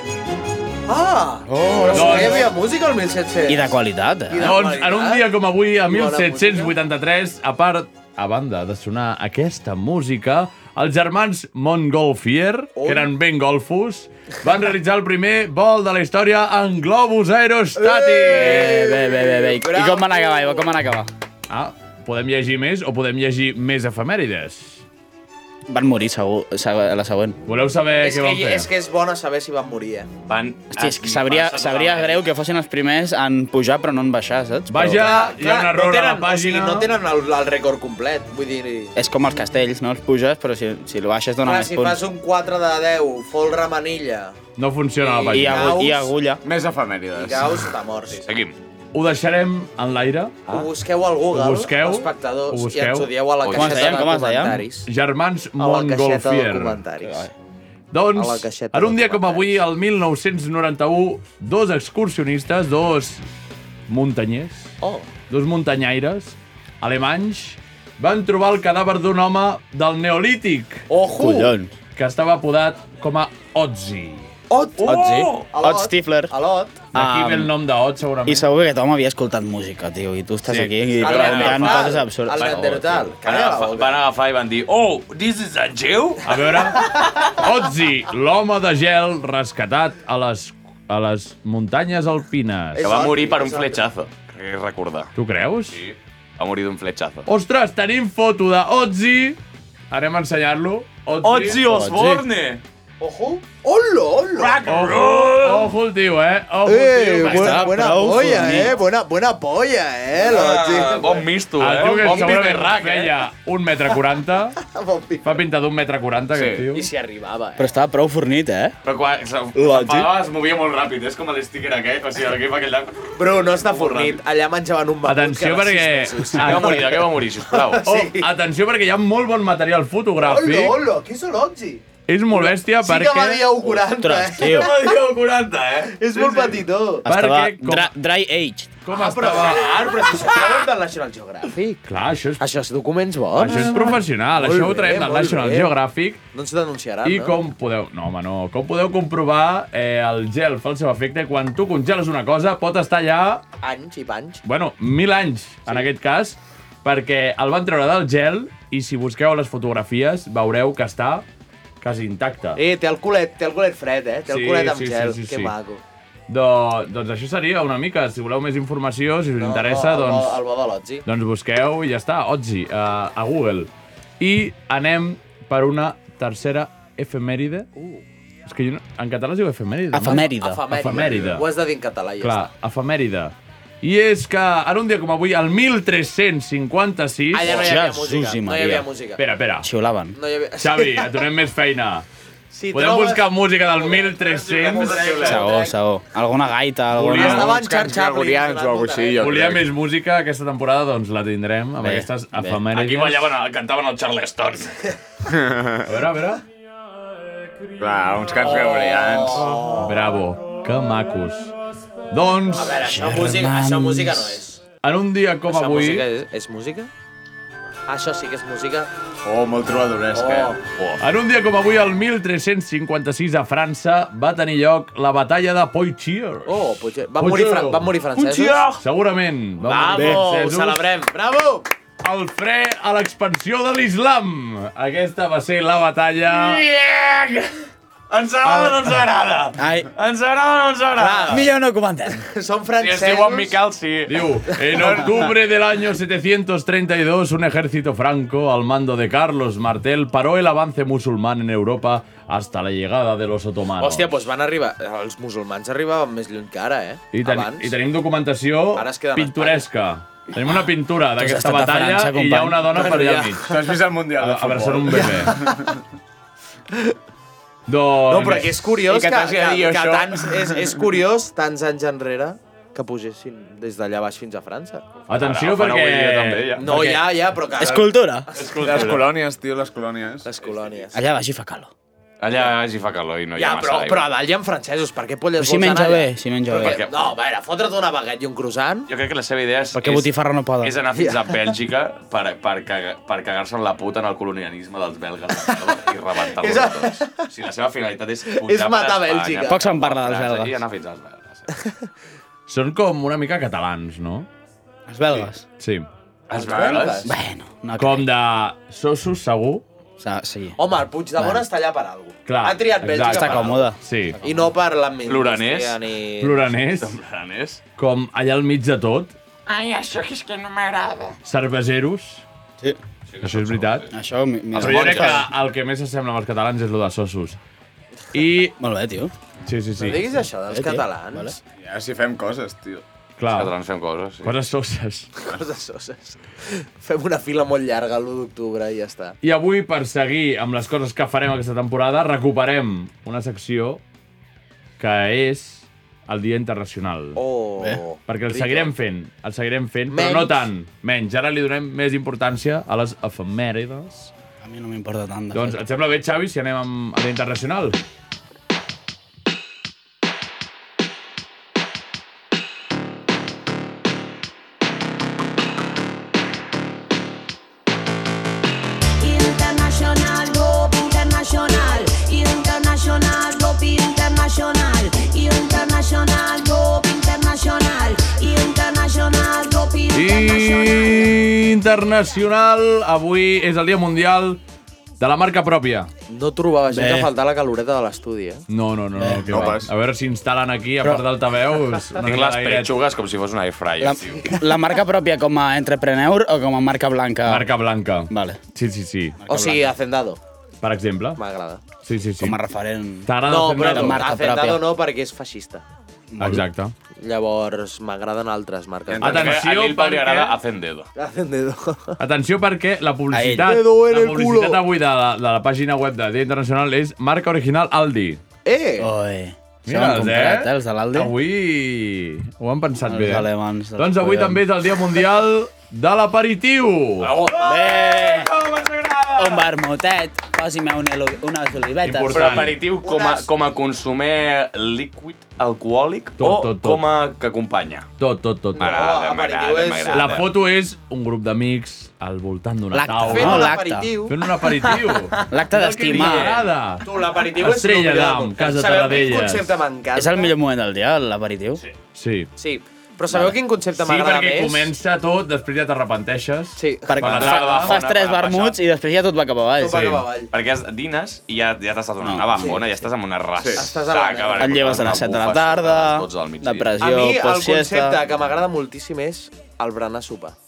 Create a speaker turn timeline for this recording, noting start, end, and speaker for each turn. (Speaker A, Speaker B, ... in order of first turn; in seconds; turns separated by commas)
Speaker A: 0.9-3.8, Speaker B: 1.5-2.5, Speaker C: 1.9-2.5, Speaker B: 3.5-4.5, Speaker A: 4.3-5.3, Speaker C: 4.4-18.9, Speaker A: 5.8-6.8, Speaker A: 12.8-13.1, Speaker A: 17.8-20.7, Speaker B: 18.2-21.1, Speaker C: 21.5-24.8, Speaker B: 25.7-27.4, Speaker C: 27.5-28.7, Speaker A: 28.0-30.1, Speaker D: 30.3-32.2, Speaker B: 30.7-35.1, Speaker C: 34.7-36.9, Speaker A: 34.9-38.9, Speaker B: 39.0-42.0, Speaker A: 41.4-44.4, Speaker C: 44.6-45.9, Speaker A: 45.0-46.1, Speaker B: 45.3-46.4, Speaker E: 46.4-47.7, Speaker A: 47.1-48.2, Speaker D: 48.2-48.6, Speaker C: 48.9-50.5, Speaker A: 50.5-54.9, Speaker C: 51.3-53.1, Speaker D: 53.4-54.0, Speaker B: 53.5-54.6, Speaker C: 54.9-56.8, Speaker A: 55.6-57.3, Speaker B: 57.0-57.3, Speaker C: 57.9-63.2, Speaker A: 58.1-59.6, Speaker C: 63.9-64.8, Speaker A: 64.8-65.1, Speaker C: 65.3-70.8, Speaker A: 70.9-71.5, Speaker B: 71.2-71.7, Speaker C: 72.0-74.3, Speaker A: 74.5-76.8, Speaker D: 74.8-75.5, Speaker B: 74.8-76.3, Speaker B: 76.9-77.5, Speaker C: 76.9-78.5, Speaker B: 78.2-82.6, Speaker C: 80.5-80.7, Speaker D: 81.0-86.4, Speaker A: 81.0-84.0, Speaker C: 86.2-93.1, Speaker A: 92.8-93.8, Speaker D: 92.8-95.1, Speaker C: 95.2-95.8, Speaker D: 95.7-97.3, Speaker C: 97.3-99.4, Speaker C: 99.9-101.7, Speaker D: 101.2-102.6, Speaker B: 101.6-102.2, Speaker A: 103.0-104.6, Speaker D: 104.4-105.7, Speaker C: 104.7-107.7, Speaker A: 106.7-111.3, Speaker B: 107.2-108.8, Speaker D: 110.2-113.1, Speaker C: 111.6-114.6, Speaker A: 111.8-113.1, Speaker A: 114.6-115.5, Speaker C: 115.2-116.9, Speaker E: 116.3-116.7, Speaker A: 116.7-117.7, Speaker B: 117.6-118.7, Speaker D: 118.8-124.2, Speaker B: 119.5-120.1, Speaker A: 123.2-128.3, Speaker C: 125.0-126.9, Speaker D: 126.4-127.8, Speaker C: 127.8-130.8, Speaker A: 130.2-134.8, Speaker C: 132.1-133.6, Speaker B: 133.8-134.7, Speaker D: 134.4-136.7, Speaker A: 135.9-137.1, Speaker C: 137.1-137.9, Speaker B: 137.1-138.7, Speaker C: 138.8-139.8, Speaker A: 138.9-141.8, Speaker C: 141.8-142.4, Speaker A: 142.4-145.7, Speaker C: 143.3-146.2, Speaker A: 146.3-147.4, Speaker C: 147.0-153.4, Speaker A: 153.6-154.4, Speaker C: 154.4-161.2, Speaker C: 161.8-162.6, Speaker A: 162.6-165.8, Speaker C: 164.3-165.5, Speaker C: 166.3-170.4, Speaker A: 169.4-171.1, Speaker C: 171.1-177.7, Speaker A: 177.8-178.0, Speaker C: 178.5-181.5, Speaker B: 179.9-180.7, Speaker A: 180.3-182.5, Speaker C: 182.2-187.7, Speaker A: 187.3-189.2, Speaker B: 187.4-188.9, Speaker C: 189.2-189.7, Speaker B: 189.6-190.2, Speaker A: 190.2-191.3, Speaker C: 190.6-192.1, Speaker A: 192.5-195.8, Speaker C: 192.7-195.2, Speaker D: 194.3-195.4, Speaker B: 195.2-197.5, Speaker C: 196.9-197.5, Speaker A: 197.2-199.5, Speaker E: 197.2-199.7, Speaker C: 199.2-203.3, Speaker B: 201.8-202.6, Speaker D: 202.7-204.8, Speaker E: 205.3-205.9, Speaker C: 205.9-206.4, Speaker E: 207.8-209.8, Speaker A: 208.4-210.1, Speaker C: 209.8-211.5, Speaker C: 212.1-212.8, Speaker A: 212.6-214.6, Speaker B: 212.8-214.4, Speaker C: 214.8-216.1, Speaker A: 215.5-216.9, Speaker A: 217.9-218.9, Speaker E: 219.2-220.6, Speaker A: 220.1-220.6, Speaker C: 221.0-227.9, Speaker A: 226.5-228.7, Speaker D: 228.2-228.8, Speaker C: 228.7-230.8, Speaker A: 229.6-231.7, Speaker B: 230.0-230.2, Speaker C: 232.0-236.7, Speaker D: 236.3-237.6, Speaker D: 238.1-241.5, Speaker B: 239.6-239.9, Speaker A: 241.0-241.5, Speaker B: 241.3-242.2, Speaker A: 242.1-243.6, Speaker D: 242.8-244.3, Speaker C: 244.1-254.1, Speaker A: 253.8-257.8, Speaker C: 257.1-263.5, Speaker A: 258.8-259.7, Speaker B: 261.2-262.7, Speaker A: 262.7-263.5, Speaker E: 263.4-265.8, Speaker C: 264.2-265.5, Speaker A: 265.1-265.6, Speaker C: 267.7-268.7, Speaker A: 268.1-274.9, Speaker E: 268.9-270.1, Speaker D: 275.1-276.7, Speaker C: 275.1-277.1, Speaker A: 276.6-278.9, Speaker B: 277.6-278.3, Speaker D: 278.4-279.1, Speaker E: 278.6-280.4, Speaker A: 280.2-281.0, Speaker B: 280.9-281.7, Speaker D: 282.2-284.1, Speaker A: 283.4-288.9, Speaker B: 285.4-286.8, Speaker D: 286.5-287.1, Speaker D: 288.9-301.5, Speaker B: 289.8-290.7, Speaker A: 290.9-291.4, Speaker A: 295.5-297.2, Speaker A: 298.4-299.6, Speaker B: 299.5-300.6, Speaker C: 302.5-304.3, Speaker B: 304.9-305.4, Speaker C: 305.6-305.9, Speaker D: 306.3-307.1, Speaker A: 306.3-307.2, Speaker B: 307.1-308.1, Speaker C: 307.8-309.6, Speaker B: 310.0-310.6, Speaker A: 310.6-313.6, Speaker B: 311.2-311.4, Speaker C: 312.3-314.2, Speaker B: 313.0-314.5, Speaker A: 314.2-316.5, Speaker D: 315.1-315.8, Speaker C: 316.2-317.0, Speaker D: 316.8-317.6, Speaker C: 317.8-319.1, Speaker D: 319.5-321.2, Speaker C: 321.2-322.2, Speaker D: 323.1-323.9, Speaker C: 323.2-323.9, Speaker B: 323.9-325.2, Speaker C: 324.5-327.4, Speaker D: 324.6-325.3, Speaker C: 328.1-328.6, Speaker B: 328.6-329.1, Speaker C: 329.5-330.1, Speaker A: 329.8-331.4, Speaker B: 330.5-331.4, Speaker E: 331.6-332.8, Speaker C: 333.2-333.5, Speaker D: 333.3-334.3, Speaker C: 334.2-335.1, Speaker A: 335.2-339.2, Speaker C: 339.2-343.8, Speaker C: 344.8-347.2, Speaker A: 347.2-348.7, Speaker C: 348.1-354.1, Speaker A: 349.9-350.5, Speaker B: 354.4-355.6, Speaker C: 355.3-357.8, Speaker F: 369.0-381.1, Speaker C: 379.9-384.4, Speaker C: 385.0-385.9, Speaker A: 386.1-388.5, Speaker B: 386.7-387.1, Speaker C: 388.5-392.7, Speaker B: 389.0-389.5, Speaker E: 389.3-389.7, Speaker D: 392.0-394.4, Speaker B: 393.8-397.5, Speaker C: 397.3-399.2, Speaker B: 398.1-398.4, Speaker B: 399.2-399.7, Speaker A: 399.3-400.2, Speaker C: 400.6-401.2, Speaker A: 401.2-401.6, Speaker C: 401.8-402.4, Speaker B: 402.2-404.6, Speaker C: 403.1-404.1, Speaker A: 403.2-405.6, Speaker B: 406.1-406.5, Speaker C: 406.2-406.7, Speaker A: 407.0-409.4, Speaker E: 408.9-409.4, Speaker D: 409.0-410.9, Speaker C: 409.0-410.4, Speaker A: 411.0-412.0, Speaker C: 412.0-418.2, Speaker B: 413.1-413.5, Speaker A: 413.4-414.6, Speaker A: 418.4-418.9, Speaker B: 418.8-421.1, Speaker C: 419.7-427.2, Speaker B: 422.9-424.4, Speaker D: 427.0-429.5, Speaker B: 427.4-428.3, Speaker B: 429.1-432.5, Speaker C: 431.8-432.6, Speaker D: 432.1-437.9, Speaker A: 432.8-433.3, Speaker C: 436.2-436.9, Speaker C: 438.0-438.9, Speaker A: 438.6-440.2, Speaker D: 438.6-440.3, Speaker C: 439.9-443.6, Speaker B: 442.7-443.9, Speaker A: 443.1-444.3, Speaker C: 444.1-449.5, Speaker D: 444.7-445.2, Speaker B: 445.3-446.4, Speaker D: 445.9-446.4, Speaker A: 446.8-450.3, Speaker B: 449.9-451.6, Speaker C: 451.9-452.3, Speaker A: 452.4-454.7, Speaker B: 453.1-453.4, Speaker C: 453.8-457.8, Speaker A: 456.6-457.2, Speaker B: 456.9-460.0, Speaker D: 457.0-458.6, Speaker A: 459.6-460.3, Speaker C: 459.7-460.0, Speaker D: 460.3-466.7, Speaker B: 462.0-462.6, Speaker E: 463.4-463.6, Speaker A: 463.6-464.8, Speaker B: 464.4-468.0, Speaker A: 466.8-470.4